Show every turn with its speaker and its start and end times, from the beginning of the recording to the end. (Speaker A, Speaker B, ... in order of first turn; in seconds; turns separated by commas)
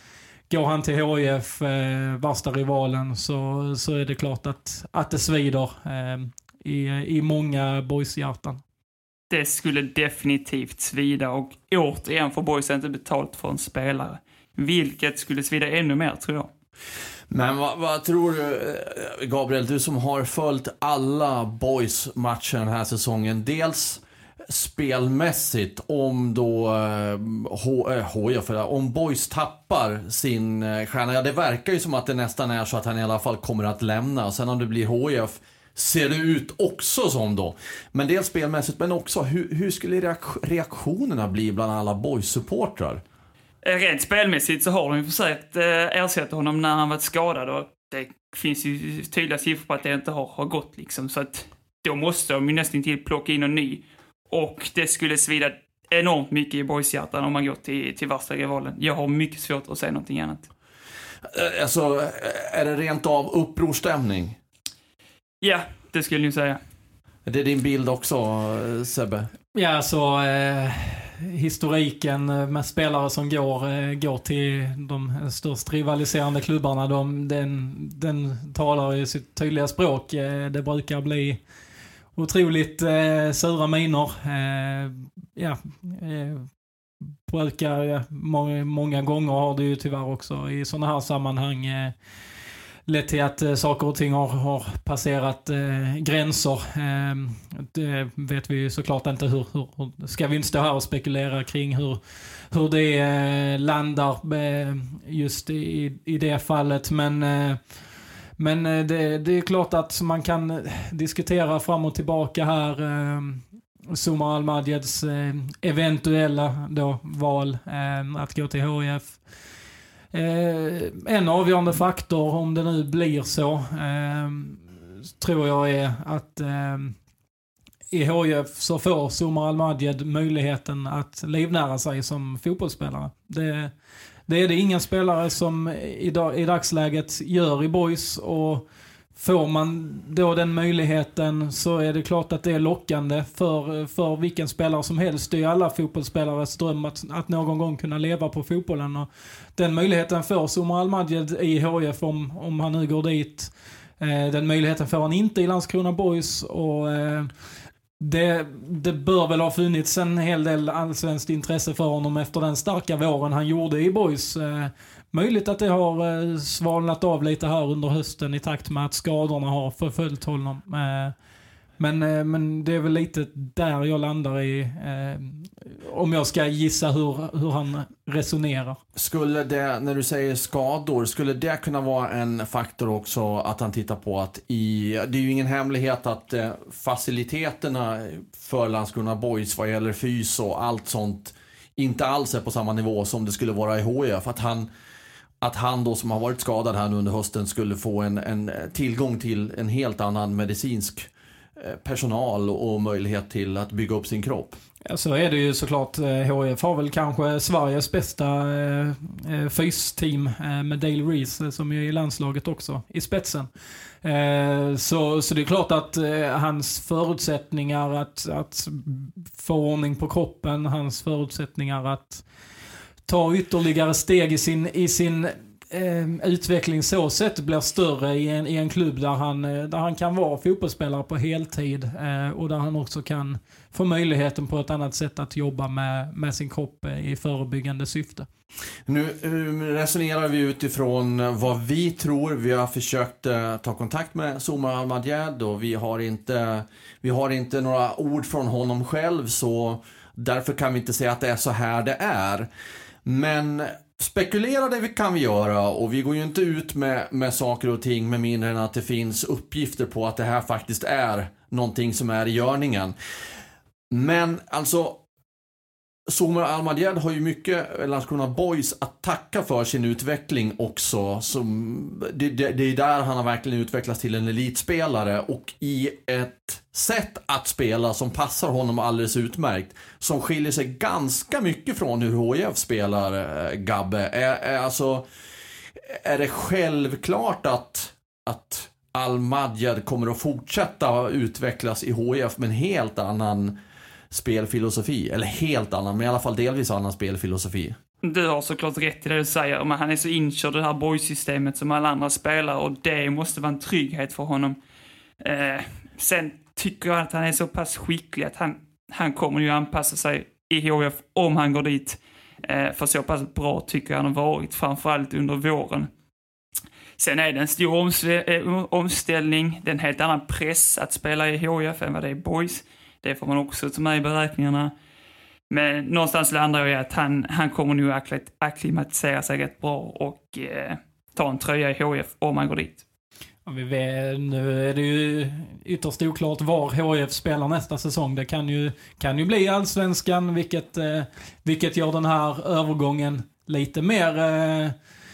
Speaker A: 0.5-8.6, Speaker B: 9.3-16.5, Speaker C: 17.3-43.0, Speaker B: 43.6-60.5, Speaker C: 61.2-64.4, Speaker B: 65.4-66.6, Speaker C: 67.3-69.3, Speaker A: 69.5-81.4, Speaker A: 82.2-86.5, Speaker A: 87.3-91.9, Speaker A: 92.9-107.8, Speaker A: 108.4-119.2, Speaker A: 120.1-127.0, Speaker A: 127.9-133.7, Speaker A: 134.3-138.6, Speaker A: 139.2-157.3, Speaker A: 158.0-171.2, Speaker A: 171.8-178.8, Speaker C: 179.0-194.7, Speaker C: 195.4-204.6, Speaker A: 204.9-213.5, Speaker A: 214.0-222.2, Speaker A: 223.1-238.3, Speaker C: 238.9-252.5, Speaker C: 253.1-262.9, Speaker C: 263.9-265.0, Speaker C: 266.1-285.1, Speaker C: 285.8-293.6, Speaker C: 294.1-297.8, Speaker B: 298.0-304.6, Speaker B: 305.2-315.9, Speaker B: 317.0-324.7, Speaker B: 325.5-332.8, Speaker A: 333.5-344.8